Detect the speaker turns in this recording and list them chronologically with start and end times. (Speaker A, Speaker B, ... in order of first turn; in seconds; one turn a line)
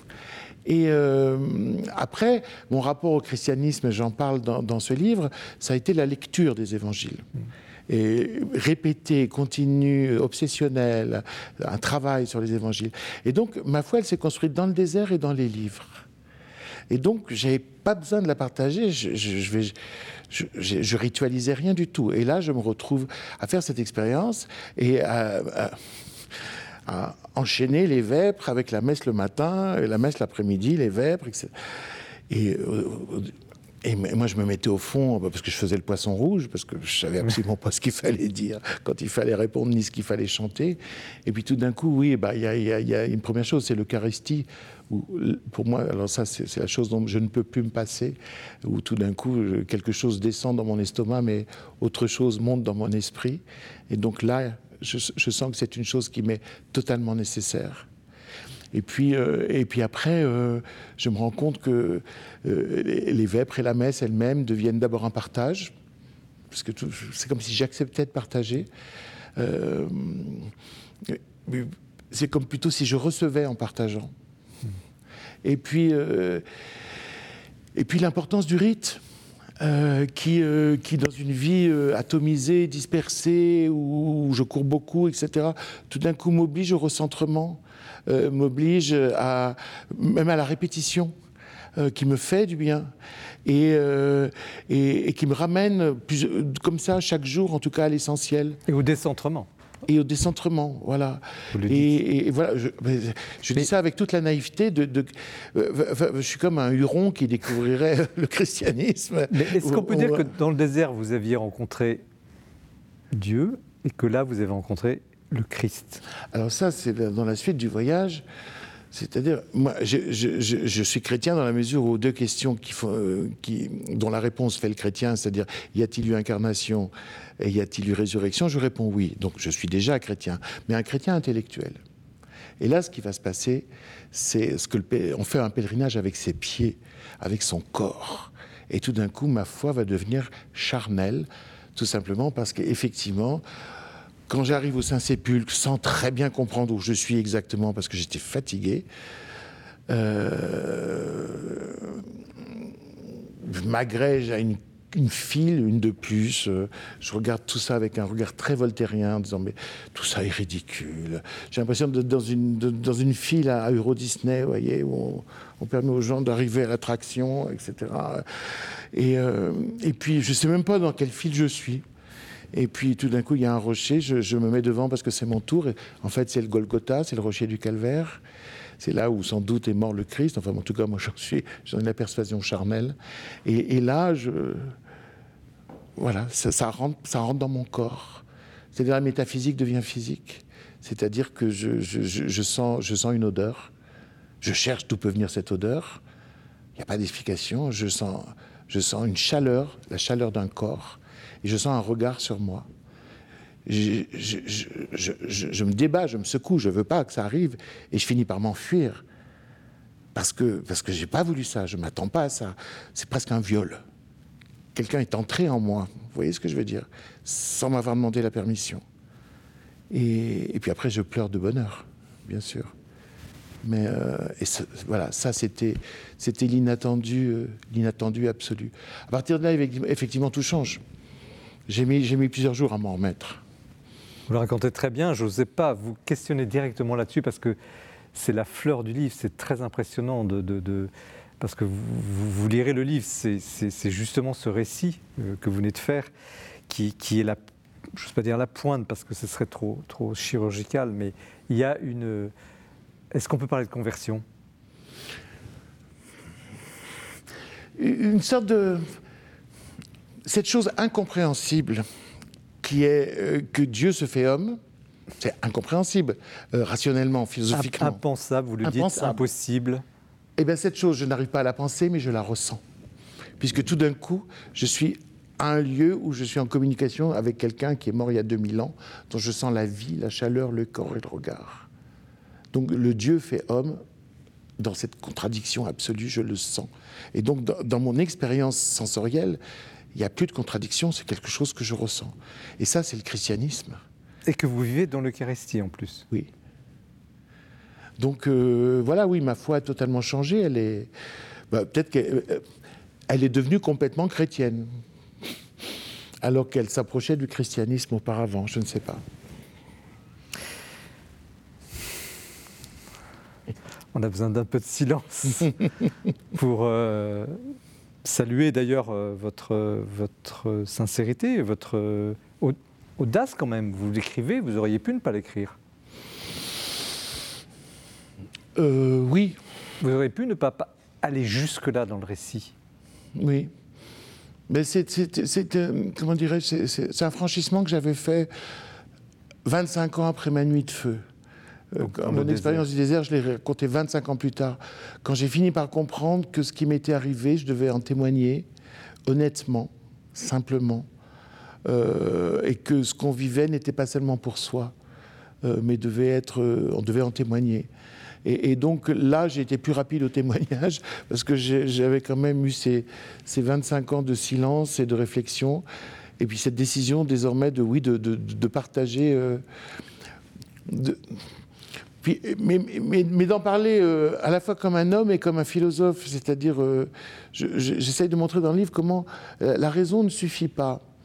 Speaker A: 0.6-7.2
Speaker A: 7.9-16.0
Speaker A: 16.9-19.7
Speaker A: 20.3-25.8
Speaker A: 26.9-31.5
Speaker A: 32.3-33.3
Speaker A: 33.8-57.9
Speaker A: 58.7-65.7
Speaker A: 66.5-68.7
Speaker A: 69.4-70.5
Speaker A: 71.0-74.1
Speaker A: 75.4-76.4
Speaker A: 77.7-79.0
Speaker A: 79.6-91.1
Speaker A: 91.8-92.9
Speaker A: 93.4-98.6
Speaker B: 98.7-99.5
Speaker A: 99.9-110.2
Speaker B: 101.5-102.0
Speaker B: 109.3-112.0
Speaker B: 113.1-116.0
Speaker A: 116.3-118.2
Speaker A: 118.9-131.8
Speaker A: 132.6-143.4
Speaker A: 144.3-148.8
Speaker A: 149.9-152.7
Speaker A: 153.4-168.2
Speaker A: 168.9-171.8
Speaker A: 172.5-178.2
Speaker A: 178.8-184.7
Speaker A: 186.0-193.7
Speaker A: 194.4-196.0
Speaker A: 196.8-202.7
Speaker A: 203.7-209.0
Speaker A: 210.1-213.8
Speaker A: 214.7-218.8
Speaker A: 219.9-222.7
Speaker A: 223.6-230.8
Speaker A: 231.7-233.4
Speaker B: 234.3-237.6
Speaker B: 238.1-246.1
Speaker B: 246.7-247.4
Speaker B: 247.9-252.3
Speaker B: 253.1-254.2
Speaker A: 257.8-258.9
Speaker A: 260.2-261.8
Speaker A: 262.6-264.6
Speaker A: 265.2-268.0
Speaker B: 267.5-269.8
Speaker A: 268.6-269.2
Speaker A: 270.4-272.6
Speaker A: 273.4-281.7
Speaker A: 282.5-283.8
Speaker A: 284.6-289.4
Speaker A: 289.9-293.8
Speaker B: 294.2-296.0
Speaker A: 298.0-300.9
Speaker A: 301.5-302.4
Speaker A: 303.1-304.7
Speaker A: 306.2-309.0
Speaker B: 313.9-315.6
Speaker B: 316.3-317.4
Speaker B: 318.0-325.6
Speaker A: 328.6-329.4
Speaker B: 329.8-332.5
Speaker A: 333.1-333.5
Speaker A: 334.5-338.3
Speaker A: 339.4-341.0
Speaker A: 341.7-348.5
Speaker B: 341.8-342.6
Speaker A: 349.1-350.9
Speaker A: 351.6-354.7
Speaker A: 355.4-357.7
Speaker A: 358.2-365.6
Speaker A: 366.2-369.4
Speaker A: 370.7-371.2
Speaker A: 372.0-380.8